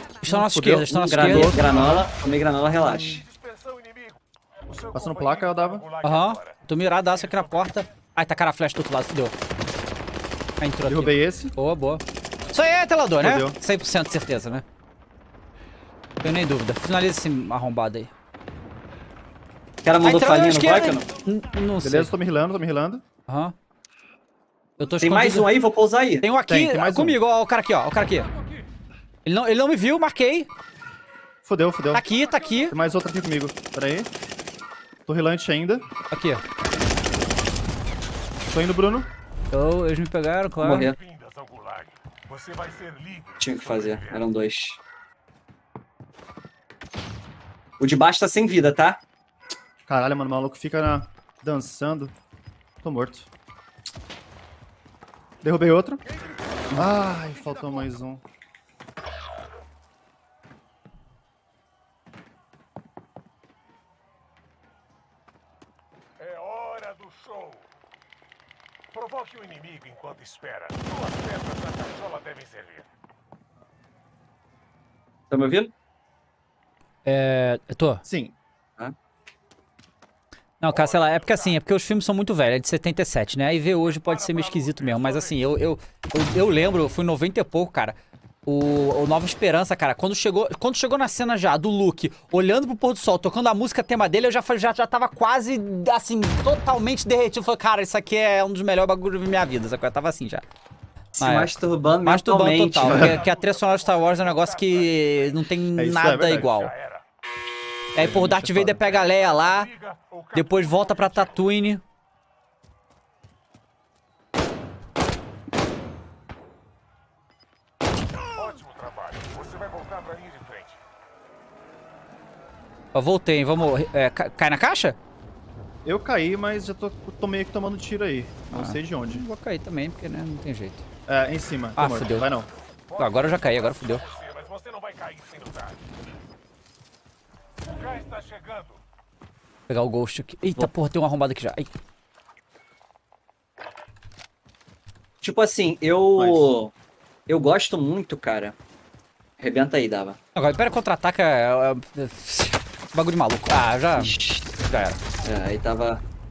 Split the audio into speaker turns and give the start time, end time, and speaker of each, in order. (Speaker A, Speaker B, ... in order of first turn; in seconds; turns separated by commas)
Speaker A: 0.2-1.6, Speaker B: 0.3-1.9, Speaker C: 0.9-3.2, Speaker D: 1.6-2.0, Speaker B: 2.9-3.2, Speaker D: 3.1-7.9, Speaker B: 4.9-5.9, Speaker A: 6.0-9.3, Speaker A: 10.6-14.7, Speaker B: 10.9-11.6, Speaker B: 13.2-13.6, Speaker A: 16.2-18.1, Speaker C: 19.8-21.1, Speaker A: 20.0-22.1, Speaker B: 21.8-23.0, Speaker A: 23.3-23.5, Speaker A: 24.8-25.5, Speaker C: 25.0-26.3, Speaker A: 26.2-28.3, Speaker B: 26.5-27.2, Speaker A: 29.2-30.5, Speaker B: 31.4-32.1, Speaker A: 31.9-32.8, Speaker B: 32.7-34.1, Speaker B: 35.1-35.9, Speaker A: 36.1-36.4, Speaker B: 38.5-39.1, Speaker A: 39.5-40.9, Speaker C: 40.6-41.0, Speaker D: 41.0-44.3, Speaker C: 43.4-44.8, Speaker C: 47.8-49.0, Speaker B: 49.9-52.1, Speaker B: 52.8-53.3, Speaker B: 55.4-56.0, Speaker B: 56.7-58.2, Speaker D: 66.2-67.7, Speaker D: 68.9-72.9, Speaker C: 75.3-75.7, Speaker A: 77.0-78.0, Speaker B: 78.0-78.3, Speaker A: 80.6-100.4, Speaker D: 80.7-81.6, Speaker D: 83.8-85.4, Speaker C: 101.1-103.2, Speaker A: 101.2-106.7, Speaker B: 102.9-103.2, Speaker D: 103.0-105.5, Speaker B: 105.8-106.6, Speaker D: 106.5-107.0, Speaker A: 108.0-109.7, Speaker B: 108.0-108.9, Speaker D: 109.0-111.4, Speaker A: 110.3-111.8, Speaker D: 118.3-120.8, Speaker A: 122.9-125.0, Speaker B: 125.8-129.3, Speaker A: 128.5-130.8, Speaker B: 131.1-132.5, Speaker A: 131.8-132.3, Speaker D: 132.9-135.8, Speaker A: 133.0-134.1, Speaker D: 137.6-138.8, Speaker A: 139.7-141.7, Speaker C: 145.2-146.7, Speaker B: 146.2-146.5, Speaker C: 147.3-148.6, Speaker C: 149.4-150.2, Speaker A: 150.3-154.1, Speaker C: 154.0-154.5, Speaker A: 154.7-155.0, Speaker C: 155.2-156.0